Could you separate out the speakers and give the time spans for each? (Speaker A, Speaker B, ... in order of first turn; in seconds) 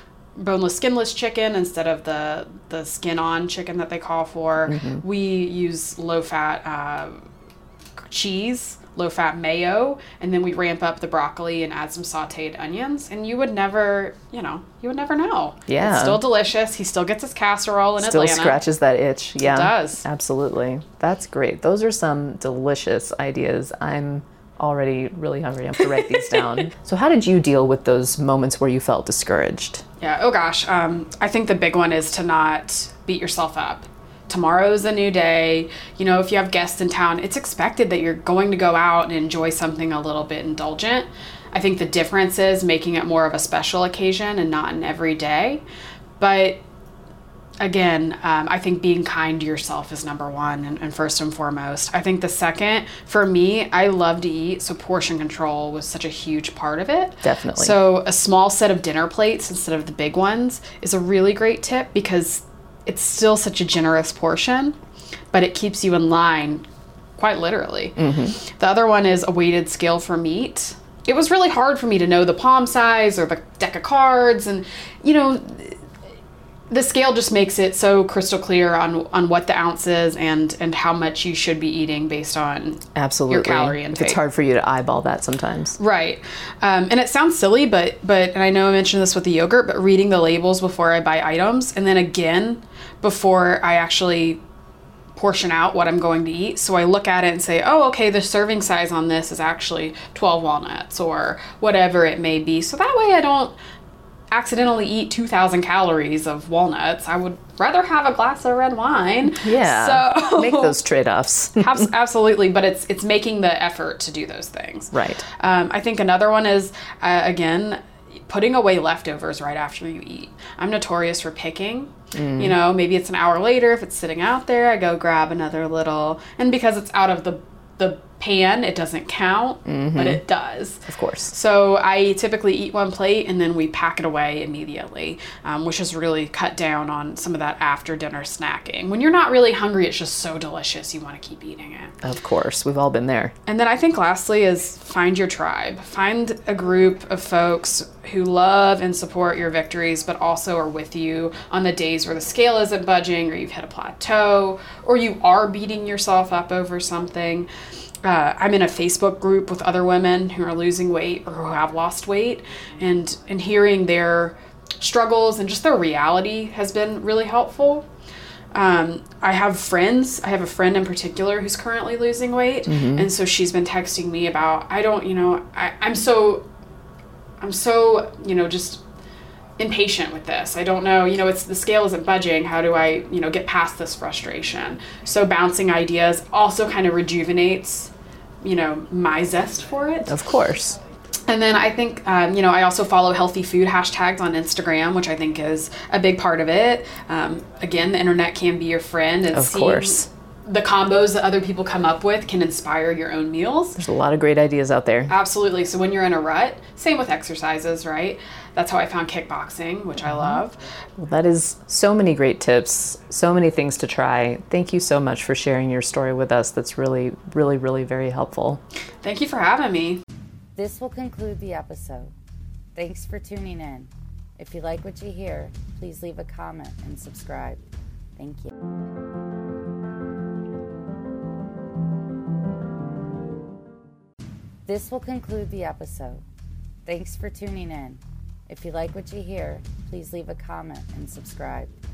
Speaker A: 0.3-7.2, 8.1-18.6, 19.4-20.0, 25.9-26.6, 30.0-45.6, 46.2-46.6, 47.6-64.8, 65.3-66.6, 67.2-75.8, 76.7-84.2, 85.8-94.4, 95.2-103.5, 104.3-110.7, 111.6-141.9, 143.4-157.5, 158.0-167.8, 168.5-176.4, 177.4-178.8, 179.6-187.9, 188.4-190.1, 191.3-203.8, 205.1-210.6, 219.0-220.0
Speaker B: 4.7-5.0, 15.7-16.2, 18.0-29.8, 57.2-57.8, 68.0-68.4, 82.9-85.8, 109.4-111.9, 114.9-115.2, 122.1-122.5, 129.7-130.2, 130.9-131.3, 142.0-143.3, 172.7-173.1, 190.1-190.8, 199.3-200.1, 203.8-205.1, 210.0-210.4, 211.0-218.6
Speaker C: 220.6-222.1, 222.8-227.6, 228.2-228.5, 234.7-236.2, 236.8-241.7